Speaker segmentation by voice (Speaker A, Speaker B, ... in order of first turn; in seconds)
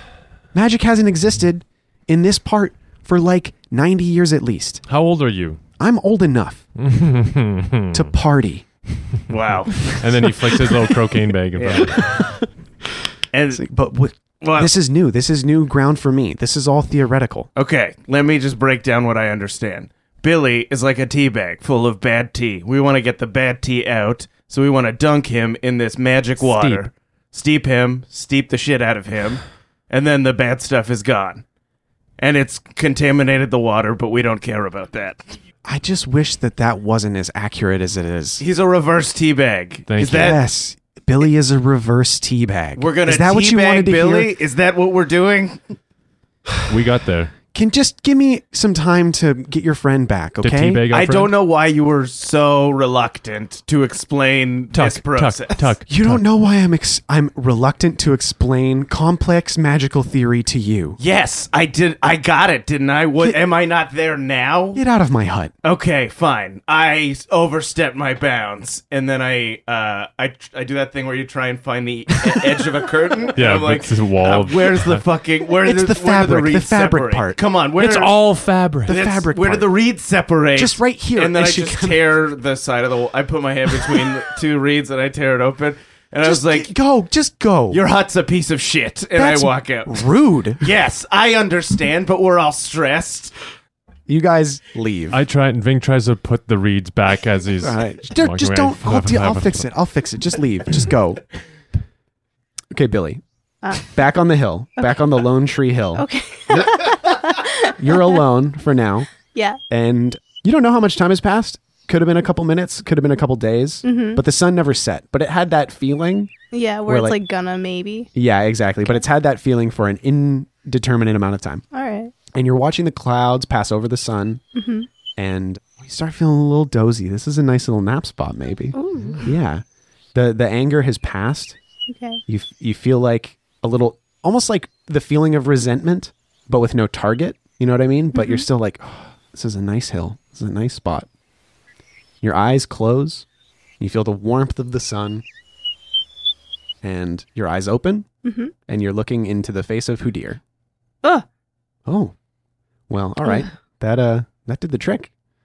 Speaker A: 0.5-4.8, 5.8-6.7, 7.9-8.7, 9.9-10.3, 12.0-12.4, 13.5-17.5, 26.4-26.9, 35.6-38.4, 40.0-44.3, 46.5-46.7, 47.5-50.9, 55.9-61.0, 64.7-65.5, 75.6-77.4, 78.8-79.7, 80.5-82.1, 86.2-87.8, 89.1-90.7, 94.1-95.2, 97.6-101.2, 102.7-107.0, 107.8-109.1, 109.7-116.3, 116.8-117.2, 118.1-121.6, 122.3-124.4, 125.2-131.6, 132.3-141.1, 142.2-143.2, 143.8-145.2, 146.8-148.1, 148.7-150.4, 151.8-152.1, 152.9-155.1
Speaker B: 4.9-5.6, 6.8-8.1, 9.8-12.2, 39.9-40.4, 46.7-47.3, 50.4-51.3, 54.7-56.2, 73.3-75.0, 77.8-79.0, 95.1-99.7
Speaker C: 9.3-9.9, 11.6-12.0, 13.3-13.6, 14.4-14.7, 17.6-31.4, 32.2-35.4, 38.4-40.4, 42.8-45.7, 50.9-55.7, 61.0-64.8, 65.6-78.1, 78.9-86.7, 87.7-90.0, 90.6-93.3
Speaker D: 103.6-103.9, 104.8-105.1, 106.0-108.2, 109.3-109.6, 113.8-114.2, 116.5-118.1, 121.7-122.1, 124.5-124.9, 128.7-129.3, 131.9-132.2, 138.1-138.4, 148.2-148.5